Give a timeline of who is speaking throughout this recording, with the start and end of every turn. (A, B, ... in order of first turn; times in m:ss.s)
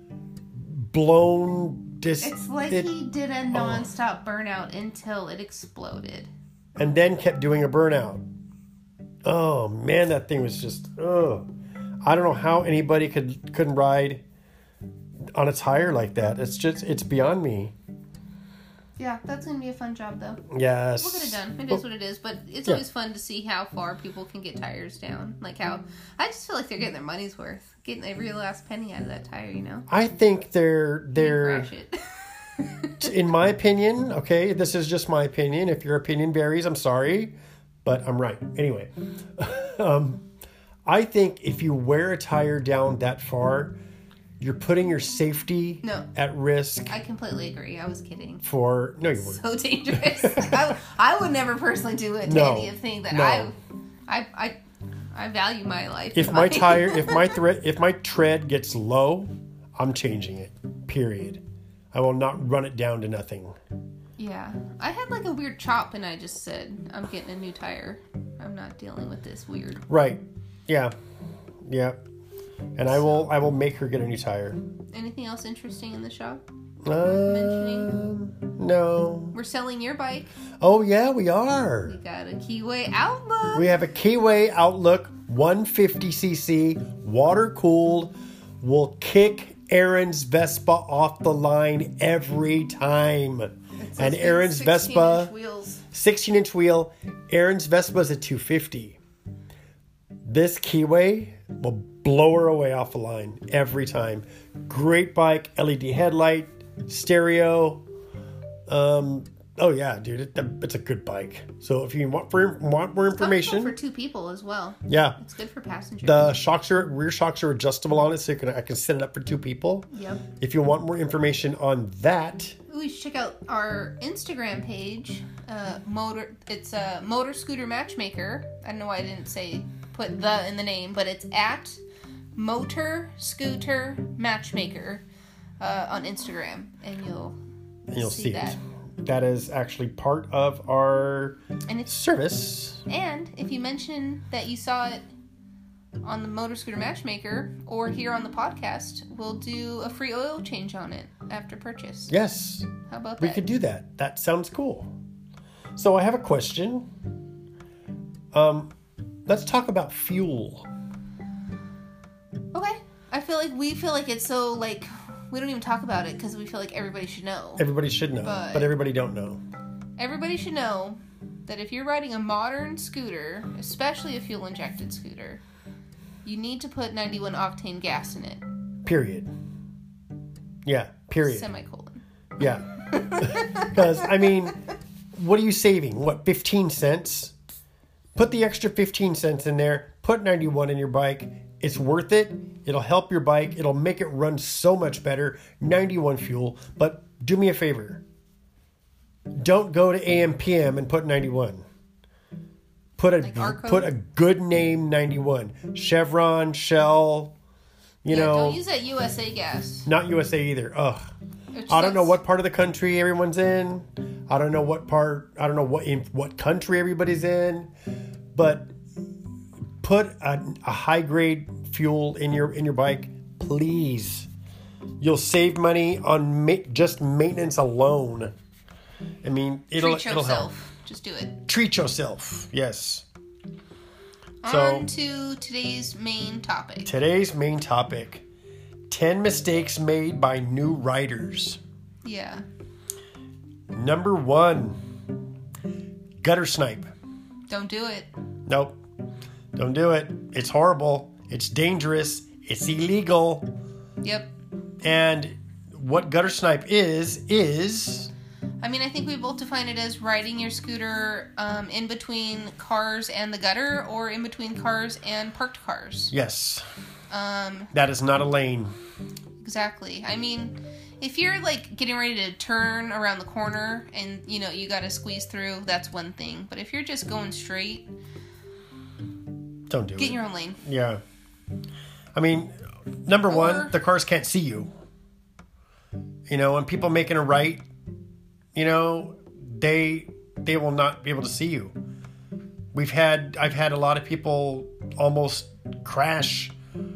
0:00.6-0:02.9 A
0:02.2-0:06.3 B
0:03.5-0:03.9 A
0:06.8-0:08.2 A
0:09.2-0:11.5 A
0:12.0-0:14.2 A
0:15.3-0:17.7 A
0:19.0-0:20.4 B
0:20.5-0:21.8 A
0:21.0-0:29.9 B
0:29.9-0:31.7 A
0:31.2-0:33.1 B
0:33.0-0:40.3 A
0:40.9-0:43.8 A
0:44.4-0:47.0 A
0:46.9-0:48.4 B
0:48.4-0:50.8 A
0:49.2-0:53.6 B
0:52.2-0:53.5 A
0:54.1-0:54.6 B
0:55.1-0:57.4 B
0:56.1-1:03.6 A
1:04.2-1:09.8 B
1:09.9-1:10.9 A
1:11.6-1:12.0 A
1:12.8-1:14.6 A
1:12.9-1:13.2 B
1:14.9-1:16.4 B
1:16.8-1:19.4 A
1:17.0-1:18.0 B
1:19.3-1:20.3 B
1:20.6-1:21.9 A
1:21.8-1:23.7 B
1:23.5-1:35.3 A
1:33.8-1:35.8 B
1:35.9-1:39.0 A
1:40.2-1:47.8 A
1:48.7-1:53.8 A
1:53.2-1:56.4 B
1:54.9-1:55.2 A
1:56.0-2:02.6 A
1:59.9-2:00.2 B
2:02.7-2:11.8 B
2:12.4-2:15.0 B
2:15.6-2:17.4 B
2:17.9-2:22.8 A
2:18.0-2:18.6 B
2:22.9-2:25.0 B
2:26.0-2:32.1 B
2:32.1-2:34.9 A
2:32.9-2:33.4 B
2:35.8-2:36.9 A
2:38.3-2:38.7 A
2:39.3-2:40.7 A
2:42.5-2:47.7 B
2:47.6-2:49.4 A
2:48.2-2:48.7 B
2:50.0-2:55.4 B
2:56.2-2:58.4 B
2:58.8-2:59.3 A
3:00.6-3:01.5 A
3:01.2-3:02.0 B
3:02.4-3:04.6 A
3:02.7-3:04.2 B
3:05.1-3:07.3 A
3:08.2-3:18.0 A
3:19.4-3:21.6 A
3:23.0-3:27.3 A
3:23.2-3:23.9 B
3:28.0-3:28.6 A
3:28.1-3:29.9 B
3:29.8-3:31.1 A
3:31.5-3:32.2 B
3:31.7-3:37.7 A
3:38.3-3:38.7 A
3:39.8-3:44.3 A
3:45.0-3:48.3 A
3:49.2-3:50.5 A
3:49.8-3:51.4 B
3:51.5-3:53.1 A
3:54.4-3:56.9 B
3:54.4-3:54.9 A
3:56.8-3:58.2 A
3:58.9-4:01.6 A
4:02.0-4:02.4 B
4:03.7-4:04.8 A
4:06.2-4:06.9 A
4:07.5-4:08.1 B
4:08.5-4:08.8 A
4:09.6-4:13.5 A
4:14.0-4:14.3 B
4:14.8-4:18.1 A
4:18.6-4:26.1 B
4:26.1-4:26.6 A
4:27.1-4:27.7 B
4:27.7-4:28.7 A
4:29.4-4:37.9 B
4:39.7-4:41.0 A
4:40.0-4:40.6 B
4:42.1-4:44.7 A
4:43.3-4:43.8 B
4:46.3-4:47.6 A
4:48.6-4:51.7 A
4:52.7-4:56.5 A